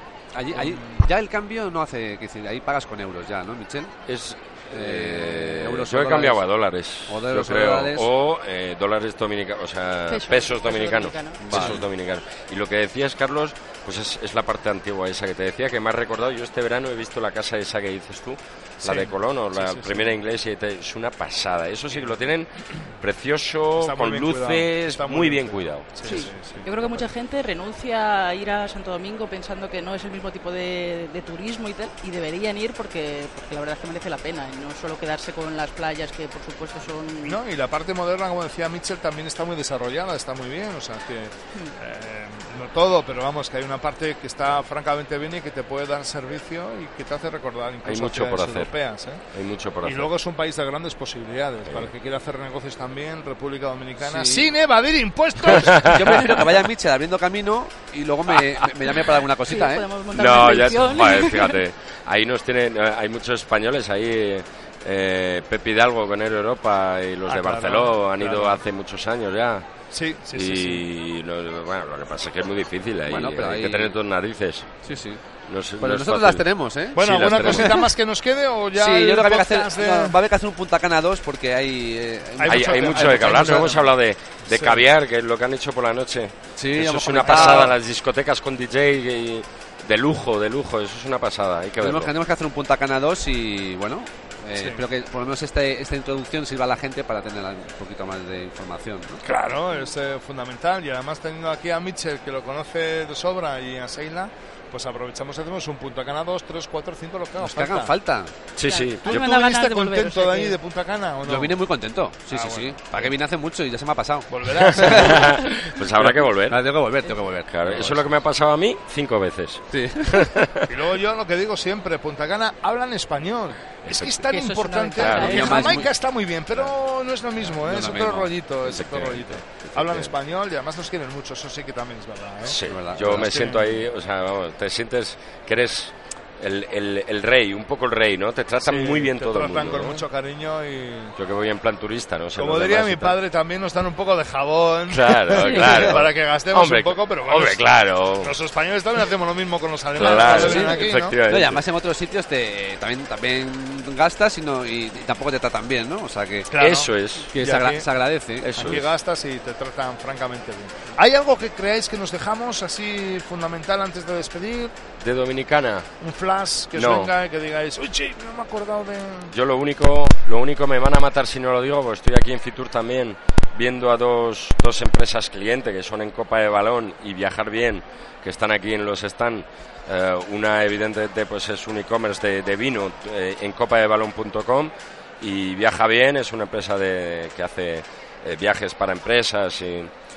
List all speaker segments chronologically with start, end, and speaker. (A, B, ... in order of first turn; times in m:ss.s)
0:00.3-0:04.0 A
0:00.5-0:00.8 B
0:04.0-0:26.2 C
0:04.7-0:06.5 A
0:07.1-0:08.1 A
0:10.1-0:11.8 D
0:11.4-0:11.8 A
0:18.8-0:20.2 B
0:23.8-0:27.0 B
0:26.0-0:37.4 D
0:37.2-0:49.2 B
0:47.8-0:48.7 C
0:49.3-0:50.1 C
0:49.8-0:56.1 B
0:51.6-0:51.9 C
0:54.0-0:54.5 A
0:55.6-0:56.2 C
0:55.7-0:59.8 A
0:59.4-1:01.6 D
1:00.1-1:09.7 C
1:07.2-1:08.6 B
1:09.9-1:10.8 B
1:10.3-1:14.7 C
1:13.1-1:14.0 A
1:14.8-1:15.2 A
1:15.5-1:16.5 C
1:15.8-1:17.9 A
1:16.9-1:20.2 B
1:17.4-1:17.7 C
1:18.7-1:23.9 A
1:22.4-1:23.9 B
1:22.5-1:32.1 C
1:24.5-1:24.8 B
1:26.5-1:27.8 A
1:27.2-1:27.7 B
1:31.8-1:39.2 A
1:34.5-1:34.8 B
1:39.2-1:47.9 B
1:47.4-1:48.3 A
1:48.6-1:49.2 C
1:48.6-1:50.6 D
1:49.1-1:51.6 B
1:51.2-1:58.1 A
1:52.3-1:53.1 B
1:54.3-1:55.3 B
1:54.7-1:56.6 C
1:57.5-2:00.7 C
1:59.7-2:00.3 A
2:00.7-2:13.7 B
2:03.8-2:04.3 C
2:04.3-2:05.8 D
2:05.0-2:05.4 C
2:05.2-2:05.9 A
2:07.4-2:08.3 A
2:08.6-2:10.1 C
2:12.4-2:20.0 C
2:12.6-2:13.5 A
2:18.6-2:21.2 B
2:21.2-2:23.2 C
2:22.4-2:27.6 B
2:24.9-2:28.3 C
2:28.2-2:31.2 B
2:29.9-2:31.6 C
2:30.0-2:36.5 A
2:36.5-2:37.8 B
2:36.6-2:37.3 C
2:37.3-2:38.8 A
2:38.4-2:38.9 C
2:38.5-2:44.8 B
2:45.0-2:45.8 C
2:46.0-2:49.3 B
2:46.7-2:47.1 C
2:49.3-3:09.9 C